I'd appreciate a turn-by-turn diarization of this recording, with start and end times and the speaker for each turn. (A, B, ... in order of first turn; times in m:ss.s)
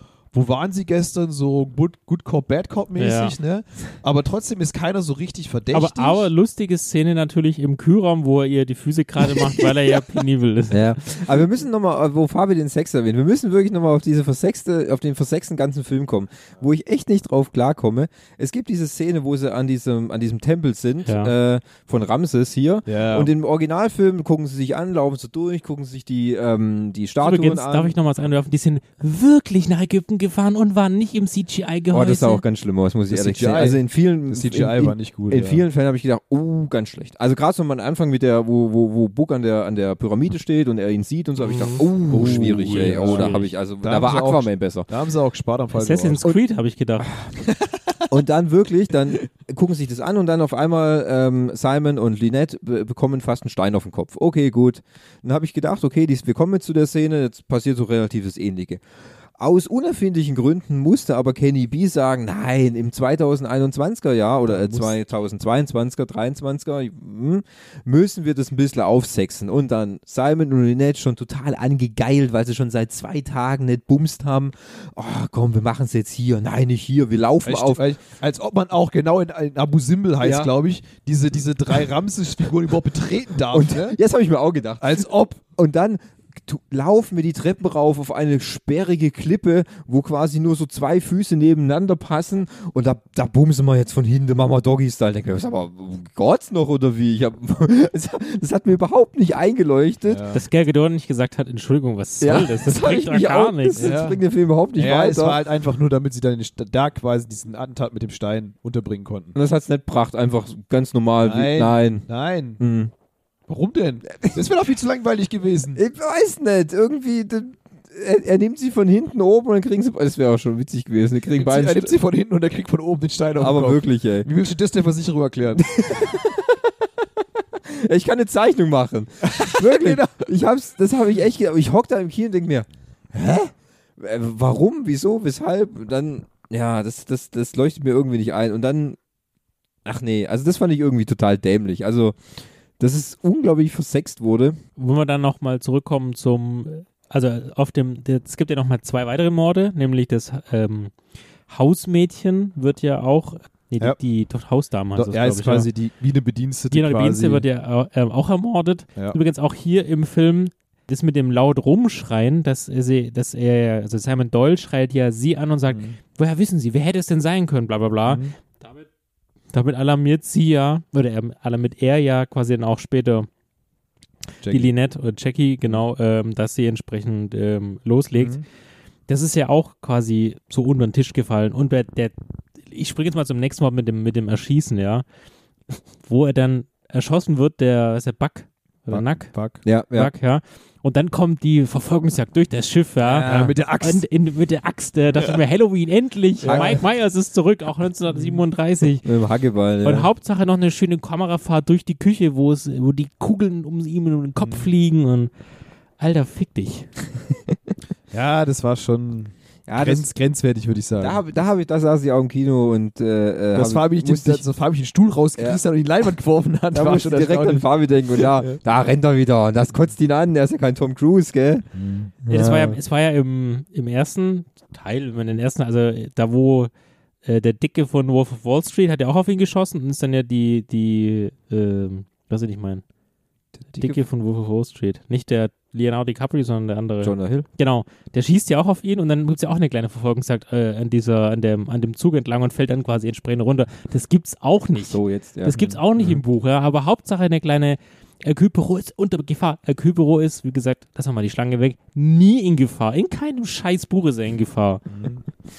0:00.3-0:06.3 A
0:03.0-0:03.4 B
0:05.7-0:11.2 B
0:10.7-0:27.9 C
0:21.0-0:21.3 B
0:22.9-0:23.3 A
0:27.2-0:32.4 B
0:31.9-0:44.9 C
0:33.1-0:35.6 A
0:41.4-0:43.5 B
0:42.1-0:46.2 A
0:45.7-0:47.1 B
0:47.4-0:48.0 A
0:48.1-0:58.8 C
0:59.4-1:17.8 C
1:04.4-1:04.9 A
1:17.4-1:24.0 A
1:20.2-1:20.5 C
1:23.5-1:40.2 C
1:24.8-1:25.4 A
1:40.1-1:40.4 A
1:40.3-1:43.9 B
1:42.2-1:45.4 C
1:43.8-1:44.2 A
1:44.8-1:49.3 A
1:49.3-1:52.0 C
1:51.2-1:52.6 A
1:52.6-1:52.9 C
1:53.5-1:55.8 A
1:55.7-2:01.9 C
2:01.3-2:05.7 A
2:03.4-2:04.3 C
2:05.6-2:06.7 C
2:07.4-2:19.0 C
2:09.2-2:10.3 A
2:19.8-2:22.2 C
2:22.8-2:24.6 C
2:24.8-2:30.9 B
2:31.5-2:35.7 B
2:34.9-2:37.4 A
2:36.7-2:48.8 B
2:45.7-2:46.0 A
2:48.0-2:48.3 A
2:49.5-2:53.3 B
2:54.4-2:54.7 A
2:54.5-2:58.4 B
2:58.2-2:58.4 A
2:59.1-3:05.0 B
3:05.7-3:09.3 B
3:08.9-3:09.6 A
3:09.6-3:10.1 C
3:09.9-3:19.1 B
3:13.0-3:14.0 A
3:16.4-3:16.8 A
3:16.4-3:16.8 C
3:18.1-3:18.4 A
3:19.0-3:20.1 C
3:19.8-3:25.3 B
3:24.4-3:24.7 A
3:26.0-3:26.9 B
3:28.1-3:31.2 A
3:29.7-3:30.1 C
3:31.0-3:34.4 C
3:33.5-3:38.6 A
3:36.7-3:41.7 C
3:41.7-3:42.1 A
3:42.2-3:42.8 C
3:42.3-3:46.7 B
3:47.2-3:52.8 B
3:53.6-3:54.0 C
3:53.7-4:14.8 B
3:57.0-3:57.5 C
4:04.8-4:05.6 C
4:05.5-4:06.2 A
4:14.9-4:15.2 A